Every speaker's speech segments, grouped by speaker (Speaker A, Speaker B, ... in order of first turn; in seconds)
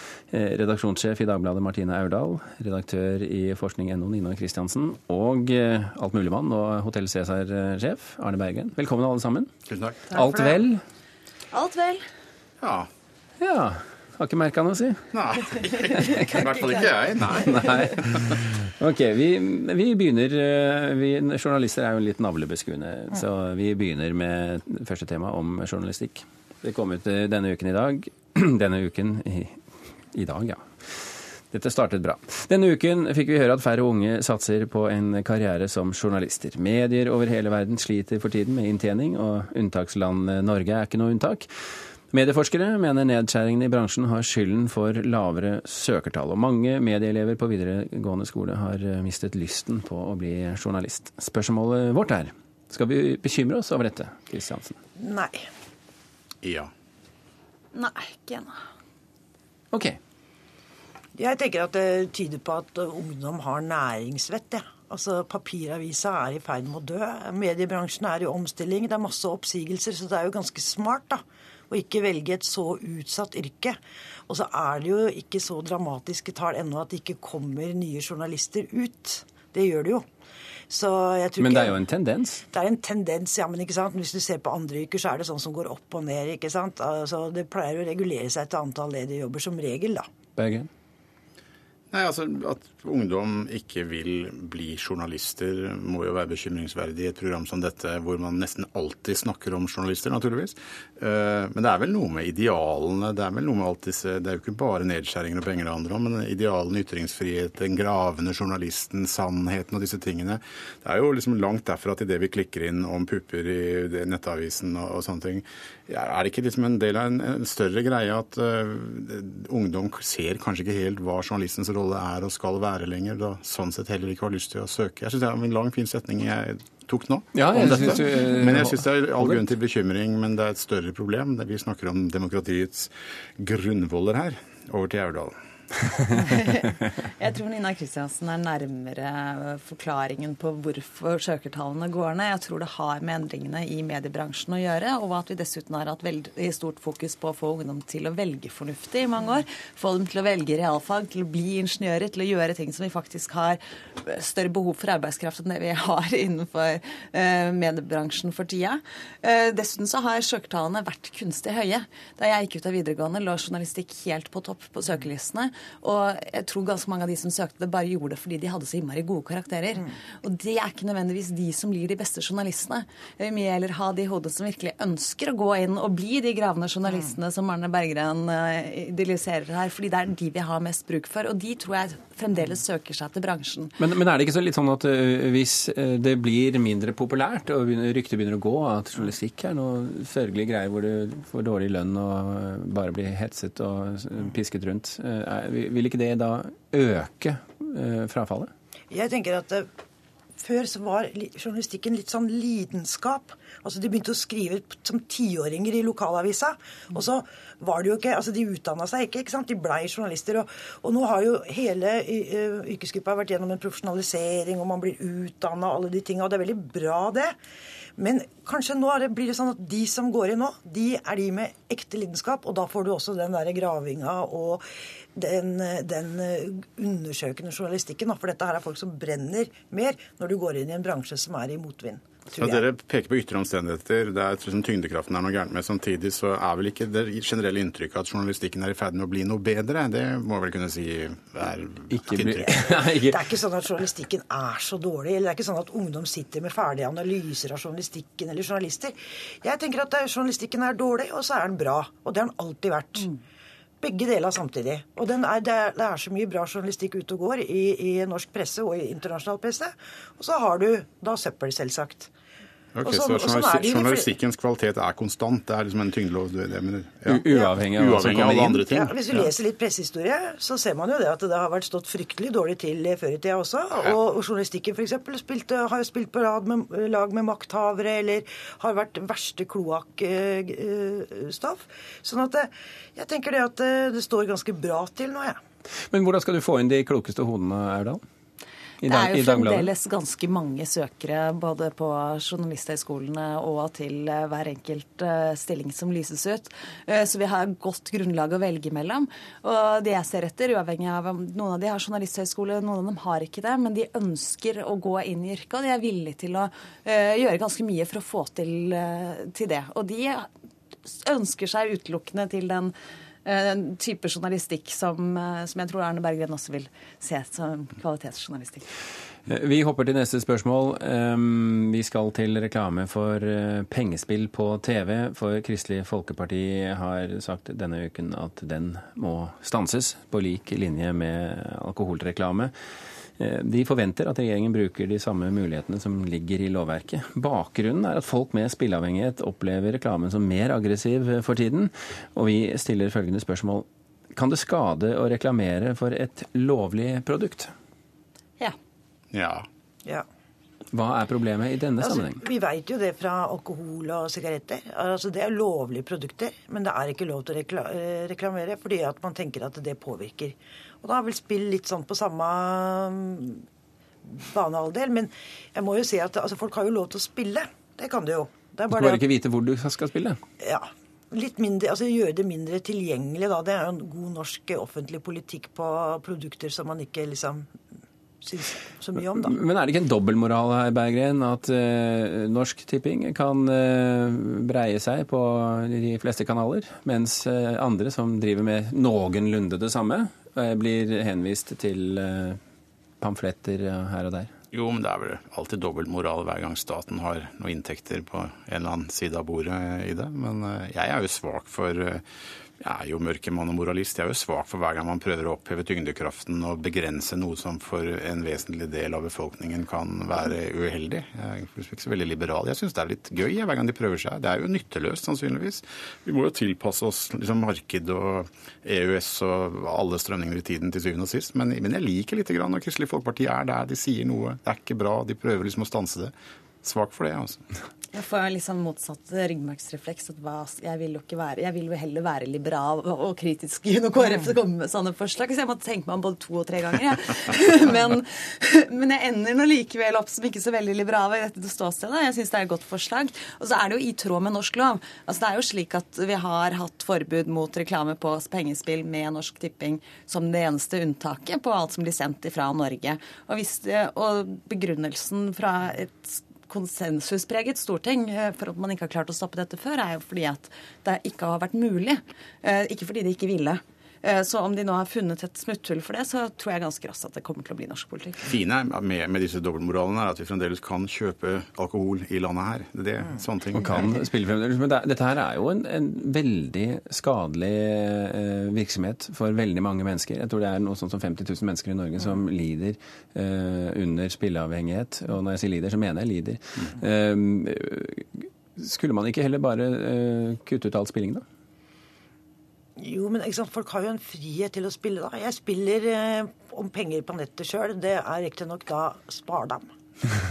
Speaker A: 0.3-9.5, 10.1-10.8, 13.4-15.1, 16.0-16.3, 17.3-29.6, 30.1-30.7, 31.5-41.5, 42.1-54.8, 59.7-60.0, 81.4-82.4, 90.3-90.7, 127.3-129.4, 183.8-198.5, 241.9-243.2, 267.1-268.6, 285.9-288.0, 288.8-289.7, 319.3-332.5, 333.2-347.5, 350.7-352.2, 368.7-370.2, 379.1-392.4, 393.0-394.3, 473.5-491.2
Speaker B: 9.7-10.1, 12.6-12.9, 15.1-18.4, 56.4-56.7, 91.9-135.3, 232.4-242.7, 262.7-269.3, 349.1-349.5, 394.5-402.0, 402.6-427.4, 468.2-473.9
Speaker C: 10.2-10.6, 55.0-55.4, 61.1-80.0, 80.7-81.8, 82.5-90.0, 198.9-199.7, 200.4-217.3, 218.0-224.6, 225.2-232.6, 242.5-253.1, 253.8-262.1, 262.8-264.1, 268.6-285.4, 351.8-363.4, 364.0-369.0, 370.4-377.5, 378.2-379.4, 492.8-499.6
Speaker D: 11.5-12.0, 16.0-16.9, 57.7-58.6, 136.1-183.8, 288.8-310.3, 310.8-312.7, 313.2-318.7, 427.9-468.3